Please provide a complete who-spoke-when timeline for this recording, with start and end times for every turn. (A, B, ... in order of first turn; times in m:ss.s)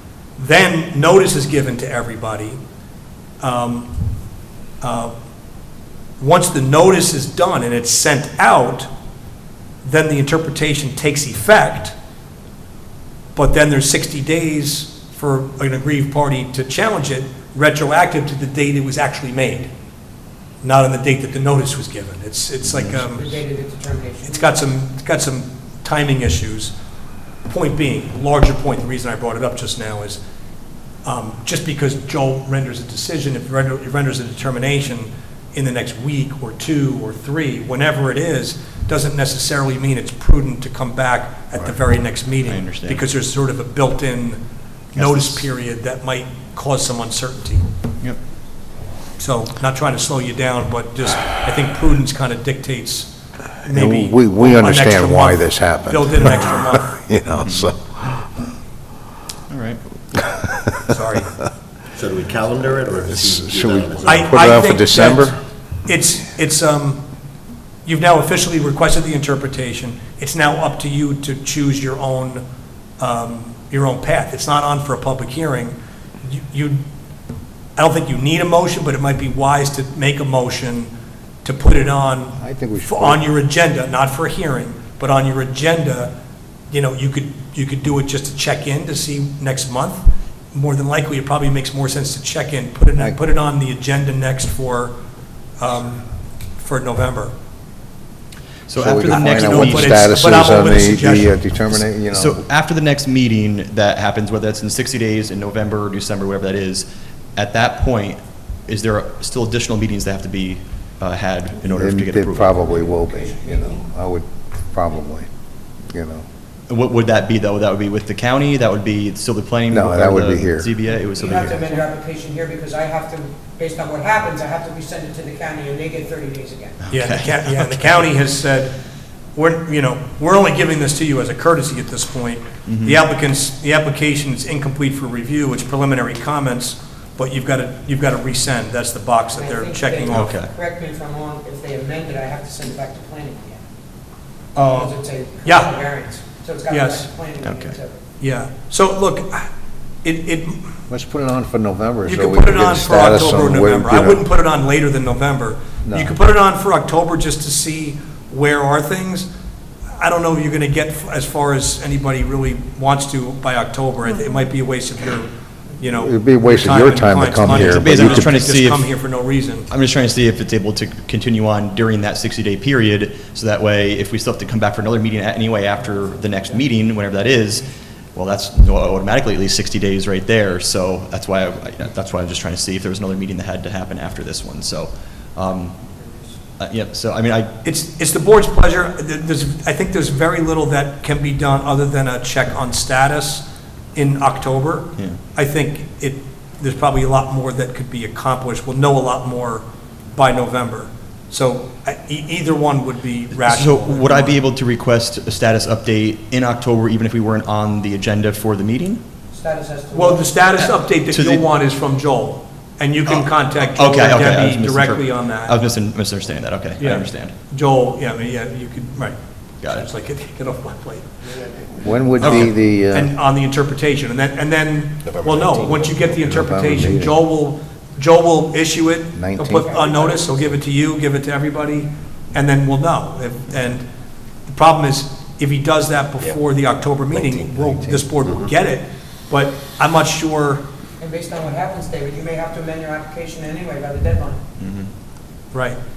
0:00.4-0:02.6 A
0:03.4-0:03.9 A
0:04.8-0:05.1 A
0:06.2-0:08.9 A
0:09.8-0:11.9 A
0:13.3-0:19.7 A
0:20.6-0:23.4 A
0:22.6-0:23.0 B
0:23.0-0:24.5 C
0:24.2-0:26.7 A
0:27.4-0:30.2 A
0:31.0-0:44.4 A
0:42.4-0:43.0 B
0:44.9-0:47.6 A
0:45.0-0:45.4 D
0:49.2-0:53.1 A
0:53.6-0:57.0 A
0:53.7-0:58.3 D
0:57.4-0:57.7 B
0:59.5-0:59.8 B
1:00.5-1:00.8 D
1:00.9-1:01.4 A
1:01.9-1:04.3 E
1:03.0-1:05.4 D
1:04.0-1:07.0 A
1:07.8-1:12.4 A
1:13.0-1:16.8 A
1:17.8-1:20.9 A
1:21.4-1:26.1 A
1:22.4-1:23.2 D
1:26.7-1:34.9 A
1:35.6-1:37.3 A
1:38.7-1:40.6 B
1:38.8-1:42.4 D
1:39.0-1:41.4 A
1:41.7-1:52.6 B
1:51.7-1:55.3 D
1:52.6-1:53.8 C
1:55.9-1:56.2 D
1:56.7-2:01.7 B
1:59.7-2:00.8 D
2:01.1-2:06.8 C
2:06.8-2:08.0 B
2:06.9-2:08.7 A
2:09.4-2:20.4 A
2:12.7-2:13.0 B
2:19.3-2:23.6 C
2:20.1-2:20.5 B
2:24.5-2:25.7 A
2:24.7-2:28.0 C
2:26.7-2:27.1 A
2:27.4-2:27.8 B
2:28.2-2:29.5 A
2:30.0-2:30.7 A
2:30.9-2:34.2 D
2:32.0-2:39.3 A
2:35.8-2:36.1 D
2:40.0-2:49.7 A
2:45.9-2:48.3 D
2:47.4-2:48.9 B
2:49.7-3:05.7 B
3:06.6-3:07.5 B
3:07.6-3:24.4 A
3:23.4-3:29.0 B
3:29.3-3:30.3 C
3:29.9-3:35.6 A
3:30.6-3:31.4 B
3:33.0-3:37.3 B
3:36.8-3:41.1 A
3:39.6-3:39.8 B
3:41.7-3:43.1 D
3:42.2-3:42.5 B
3:42.2-3:53.8 A
3:45.0-3:46.2 E
3:46.2-3:47.2 D
3:49.1-3:49.7 D
3:49.6-3:50.3 C
3:54.5-4:00.6 A
3:57.1-3:57.5 E
3:57.6-3:58.1 D
4:01.0-4:04.4 C
4:04.6-4:04.9 B
4:05.5-4:05.8 A